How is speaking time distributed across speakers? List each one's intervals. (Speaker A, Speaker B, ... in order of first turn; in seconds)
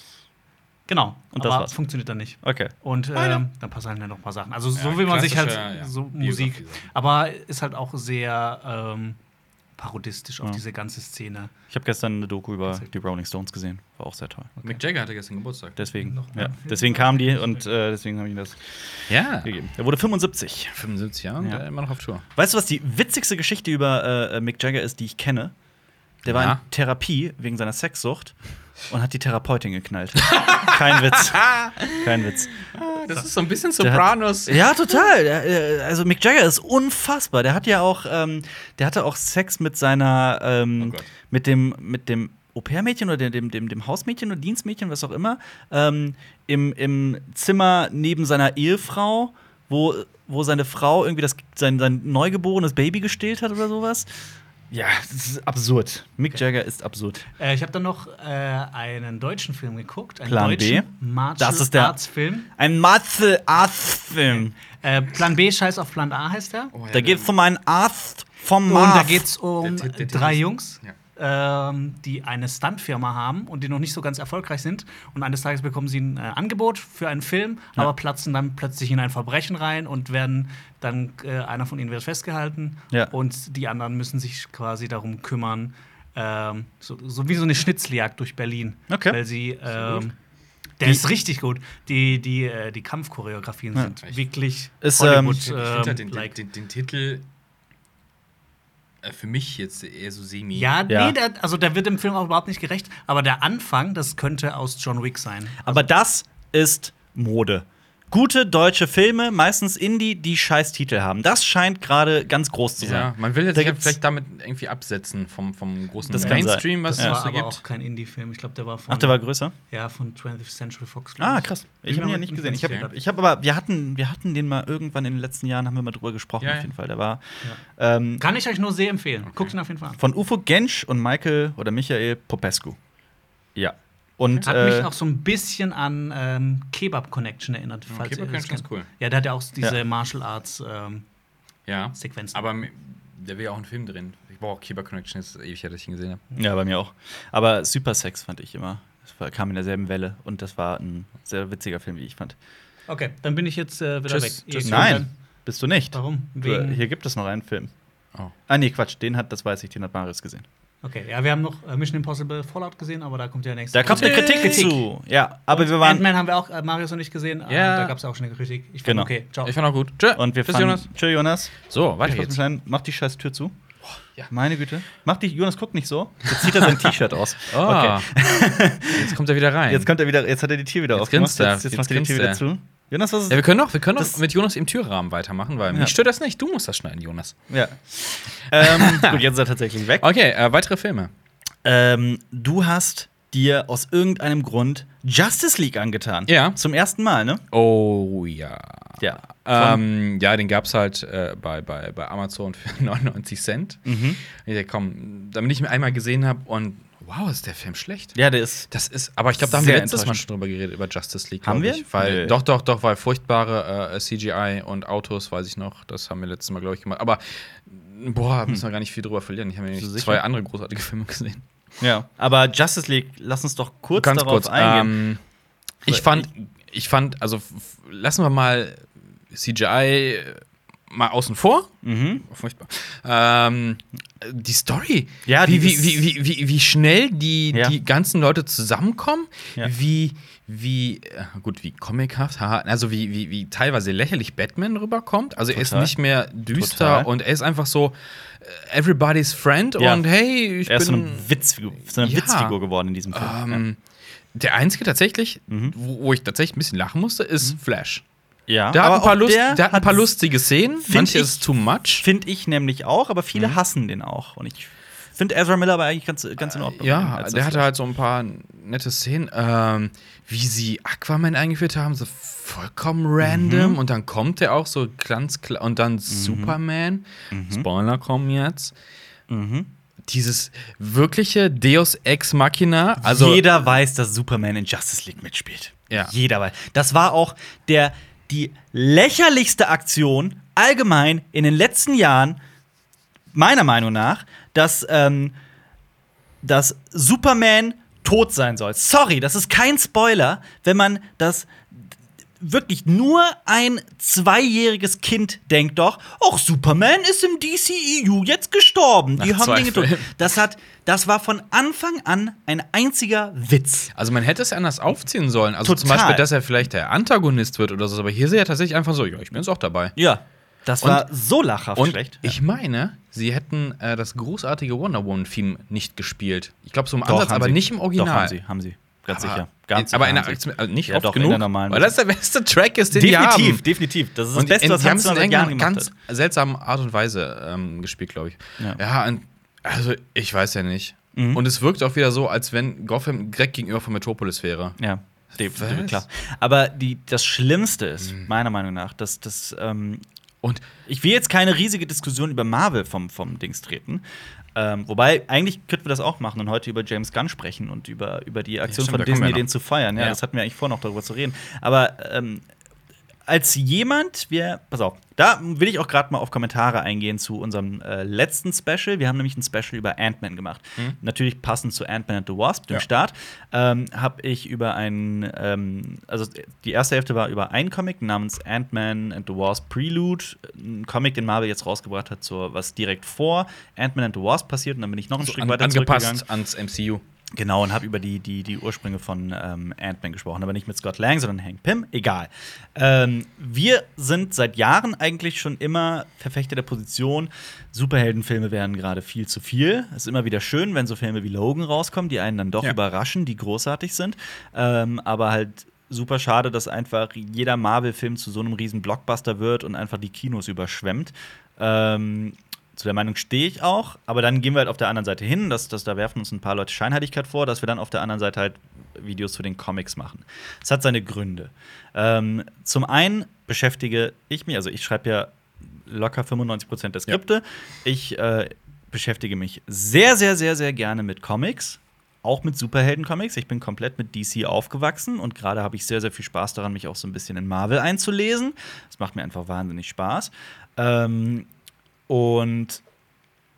Speaker A: 0.9-9.2, 9.8-11.5, 16.0-17.6, 57.4-62.5, 64.3-66.7, 68.7-90.1, 90.8-96.3, 100.5-105.7, 116.2-123.0, 128.2-130.0, 134.4-141.0, 141.9-142.4, 152.9-155.1, 155.9-156.8, 160.8-164.8, 165.5-169.5
Speaker B: 1.4-1.7, 2.4-2.7, 11.7-14.6, 15.8-20.8, 22.3-25.5, 26.2-28.3, 28.9-32.6, 33.8-54.1, 54.7-57.2, 60.2-62.0, 62.6-64.5, 66.9-69.3, 88.9-89.2, 94.8-95.4, 100.9-101.2, 105.6-114.0, 116.0-117.2, 118.9-119.5, 121.2-127.2, 127.8-128.2, 130.0-132.8, 133.6-134.9, 146.3-152.3, 154.6-157.7, 158.5-160.4, 163.7-166.1, 168.8-169.1, 170.2-173.5, 174.3-179.1, 179.7-183.4, 187.5-190.1, 191.6-197.4, 199.0-199.8, 203.8-204.2, 208.2-208.7, 209.4-210.2, 211.4-212.4, 219.7-220.2, 221.8-225.0, 225.9-226.2, 231.8-232.2, 235.2-236.0, 245.5-245.9, 246.5-247.1, 249.8-250.0, 250.7-253.6, 255.5-255.8, 258.5-260.1, 260.8-261.5, 262.0-267.7, 273.2-273.8, 276.1-276.6, 277.3-277.7, 279.3-279.7, 283.0-292.4, 293.3-295.3, 296.4-313.9, 315.6-316.3, 319.9-322.3, 327.0-331.9, 332.9-335.9, 341.1-341.4, 344.8-350.0, 350.9-354.0, 354.5-362.4, 363.3-386.2, 387.4-425.3, 425.9-441.4, 442.1-442.8
Speaker C: 3.1-3.4, 4.8-6.9, 14.6-15.8, 19.1-19.5, 20.7-22.2, 26.2-26.6, 30.2-34.8, 40.8-41.1, 66.7-67.3, 69.6-71.0, 89.8-90.0, 95.4-97.3, 99.0-100.7, 112.8-117.6, 126.4-126.7, 137.9-138.9, 141.7-146.2, 154.1-155.0, 163.8-164.8, 167.5-167.9, 169.4-170.9, 171.6-172.4, 173.8-174.3, 176.3-178.2, 178.9-179.9, 180.9-182.4, 183.3-187.4, 188.5-189.2, 190.0-191.1, 196.3-196.6, 197.5-208.2, 208.7-221.4, 223.9-225.2, 225.8-231.7, 232.2-251.3, 252.0-252.6, 253.1-253.8, 254.3-258.0, 258.7-262.1, 263.3-263.6, 266.4-278.7, 280.1-283.5, 309.2-310.1, 313.9-319.9, 321.8-328.4, 329.1-333.6, 334.3-344.8, 345.3-346.0, 358.7-360.2, 385.2-387.0